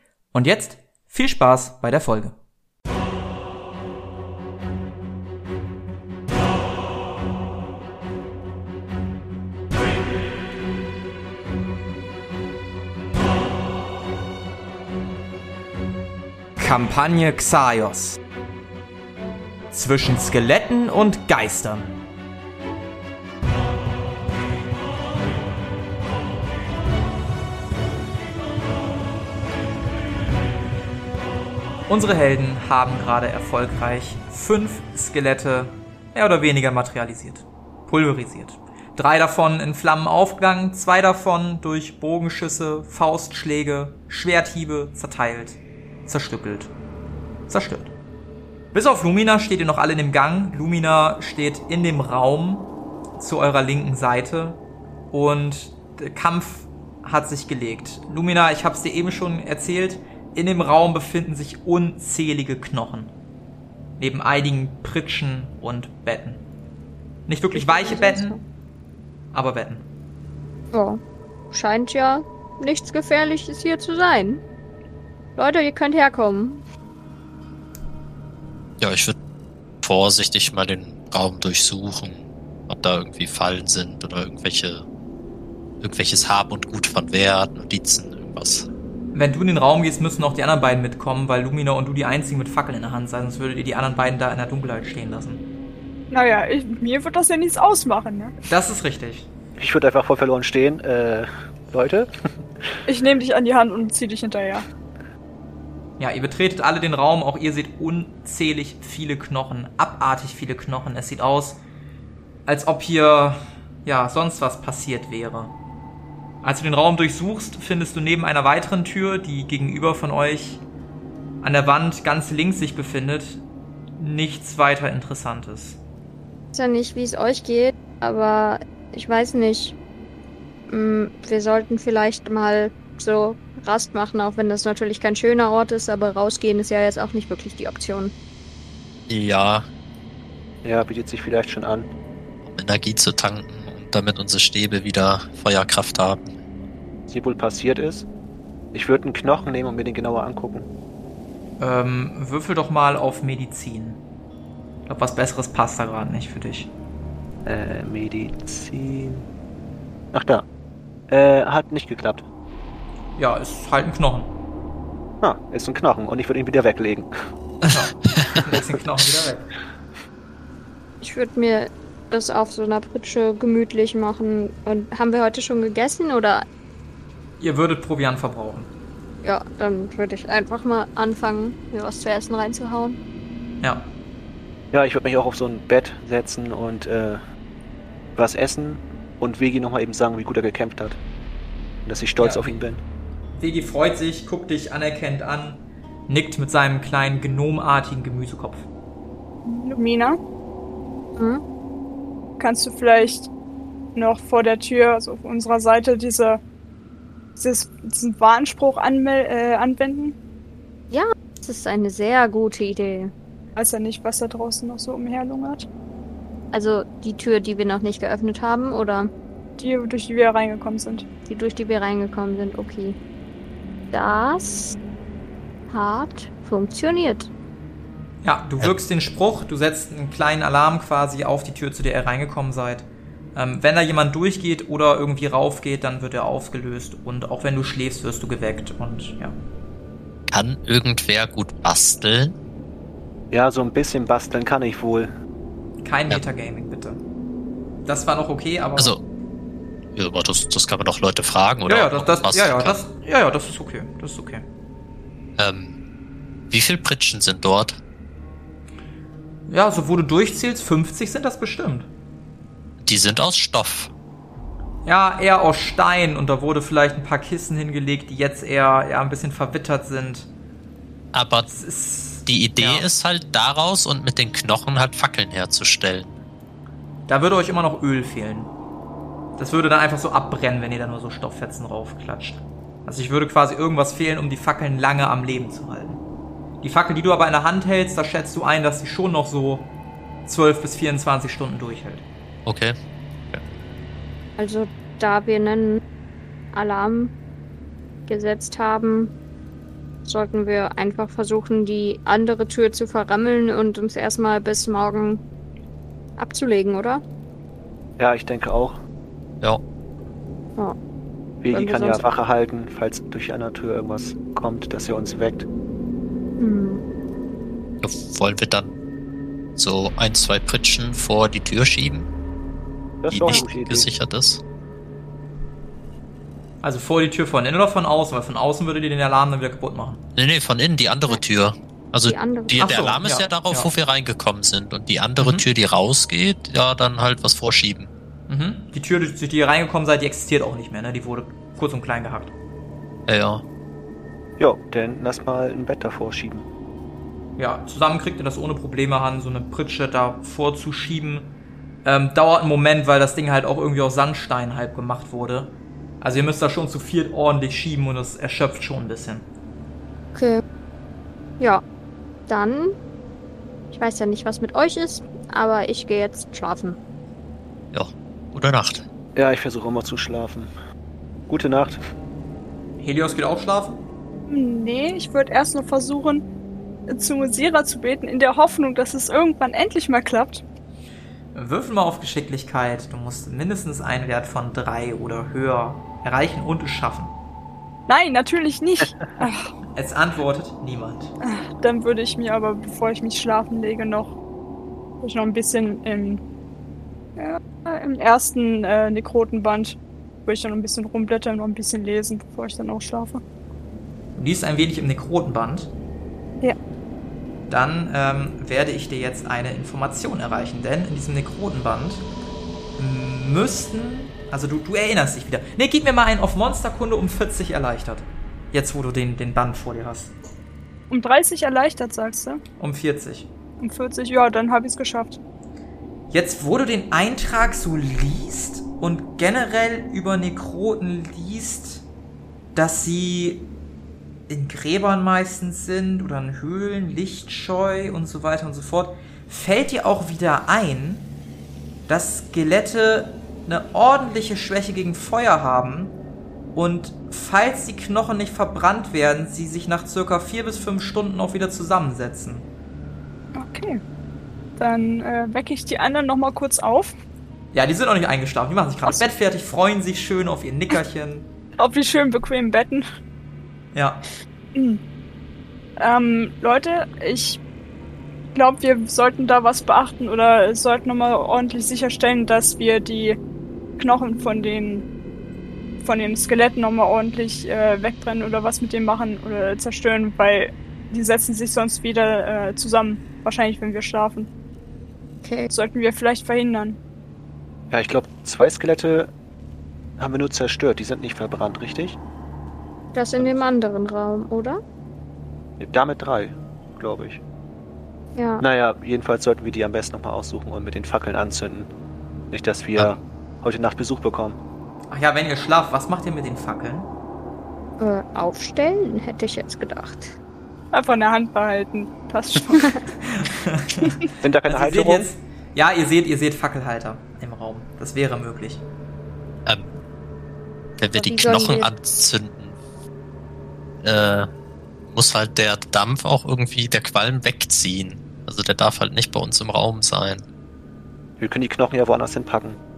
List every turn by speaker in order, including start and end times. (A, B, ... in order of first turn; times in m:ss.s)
0:00.3-0:02.4 A
0:16.6-0:18.2 A
0:19.7-0:21.9 A
0:31.9-0:46.7 A
0:47.5-0:47.9 A
0:48.7-0:54.6 A
0:55.1-1:03.1 A
1:04.0-1:06.4 A
1:07.3-1:08.4 A
1:07.5-1:08.4 B
1:09.3-1:09.8 A
1:10.7-1:14.4 B
1:15.4-1:16.6 B
1:18.8-1:19.2 C
1:19.8-1:24.8 C
1:25.8-1:28.7 C
1:29.1-1:35.4 A
1:36.1-1:38.3 D
1:38.5-1:39.3 A
1:39.6-1:42.6 E
1:42.8-1:44.6 D
1:46.0-1:51.6 A
1:52.4-1:55.5 A
1:56.4-2:00.6 A
2:01.4-2:03.4 A
2:04.0-2:05.8 A
2:06.5-2:09.8 B
2:10.7-2:18.1 B
2:19.1-2:19.7 C
2:20.6-2:21.9 E
2:22.4-2:26.3 C
2:27.1-2:28.1 E
2:28.7-2:30.7 E
2:31.6-2:34.0 A
2:34.9-2:36.7 A
2:37.4-2:39.2 E
2:40.1-2:40.4 E
2:41.1-2:42.2 E
2:43.2-2:44.3 A
2:45.2-2:47.1 E
2:47.7-2:49.5 A
2:51.0-2:56.4 B
2:57.4-2:58.7 A
2:59.2-3:03.0 B
3:03.6-3:03.9 A
3:04.7-3:07.2 E
3:08.2-3:11.0 E
3:11.8-3:12.8 E
3:12.2-3:12.5 A
3:13.4-3:18.7 A
3:19.4-3:20.2 D
3:21.2-3:21.4 B
3:22.4-3:23.3 D
3:23.9-3:26.4 D
3:27.4-3:30.2 D
3:30.9-3:33.1 B
3:33.6-3:35.7 D
3:36.5-3:39.1 B
3:39.6-3:41.0 D
3:41.3-3:43.0 B
3:43.9-3:44.8 B
3:45.7-3:47.3 B
3:48.2-3:59.4 A
4:00.3-4:02.4 C
4:03.3-4:05.1 E
4:05.8-4:07.0 A
4:07.8-4:08.9 A
4:08.8-4:09.0 C
4:10.0-4:12.8 C
4:11.7-4:14.4 A
4:15.4-4:15.8 C
4:16.5-4:17.8 C
4:19.5-4:21.9 A
4:22.8-4:23.9 C
4:24.8-4:30.3 A
4:31.1-4:31.5 C
4:31.5-4:32.9 A
4:32.2-4:36.2 C
4:37.1-4:38.5 A
4:39.4-4:46.0 A
4:46.6-4:49.7 A
4:50.2-4:52.0 A
4:52.4-4:52.7 C
4:54.4-4:55.8 B
4:56.5-4:57.1 B
4:58.1-4:59.1 B
5:00.0-5:05.2 B
5:06.2-5:07.0 B
5:08.0-5:08.8 E
5:11.4-5:15.5 E
5:11.5-5:12.0 B
5:16.4-5:16.8 B
5:17.8-5:18.8 C
5:19.6-5:22.1 C
5:23.0-5:23.9 E
5:23.1-5:24.4 C
5:26.6-5:30.0 A
5:30.2-5:37.9 C
5:32.0-5:32.6 B
5:32.6-5:33.7 A
5:35.2-5:35.4 A
5:38.3-5:42.3 A
5:43.1-5:43.4 C
5:44.4-5:46.5 E
5:47.4-5:59.2 A
6:00.1-6:00.4 B
6:02.3-6:02.8 B
6:03.7-6:06.8 B
6:07.7-6:08.8 C
6:09.2-6:10.5 E
6:11.3-6:11.8 E
6:12.8-6:13.8 A
6:14.3-6:16.2 D
6:16.9-6:20.4 D
6:21.3-6:27.1 A
6:27.9-6:29.5 D
6:29.7-6:31.1 A
6:31.2-6:34.2 D
6:35.0-6:36.2 D
6:37.2-6:43.2 D
6:44.2-6:45.7 A
6:47.5-6:52.0 A
6:52.8-7:00.1 A
7:00.9-7:02.4 D
7:02.6-7:03.3 A
7:03.6-7:05.2 D
7:06.1-7:11.8 A
7:12.5-7:13.5 A
7:14.3-7:21.1 A
7:21.9-7:26.0 A
7:26.5-7:32.5 A
7:33.3-7:33.8 D
7:34.6-7:36.9 D
7:37.5-7:41.3 A
7:41.6-7:42.8 D
7:43.7-7:44.0 A
7:44.5-7:44.8 D
7:45.8-7:47.4 D
7:48.3-7:53.2 D
7:53.8-7:54.9 D
7:55.8-8:04.3 D
8:05.2-8:05.5 B
8:05.5-8:06.8 D
8:07.7-8:09.1 E
8:10.0-8:12.0 E
8:12.9-8:14.6 B
8:15.6-8:17.2 E
8:18.2-8:18.4 B
8:18.4-8:21.7 E
8:22.3-8:24.4 E
8:24.9-8:26.9 A
8:27.8-8:30.2 B
8:30.7-8:32.8 D
8:33.0-8:38.6 A
8:34.2-8:35.1 E
8:39.4-8:39.7 C
8:40.8-8:42.6 C
8:40.9-8:41.7 B
8:43.8-8:44.3 C
8:44.9-8:50.2 C
8:51.2-8:52.6 E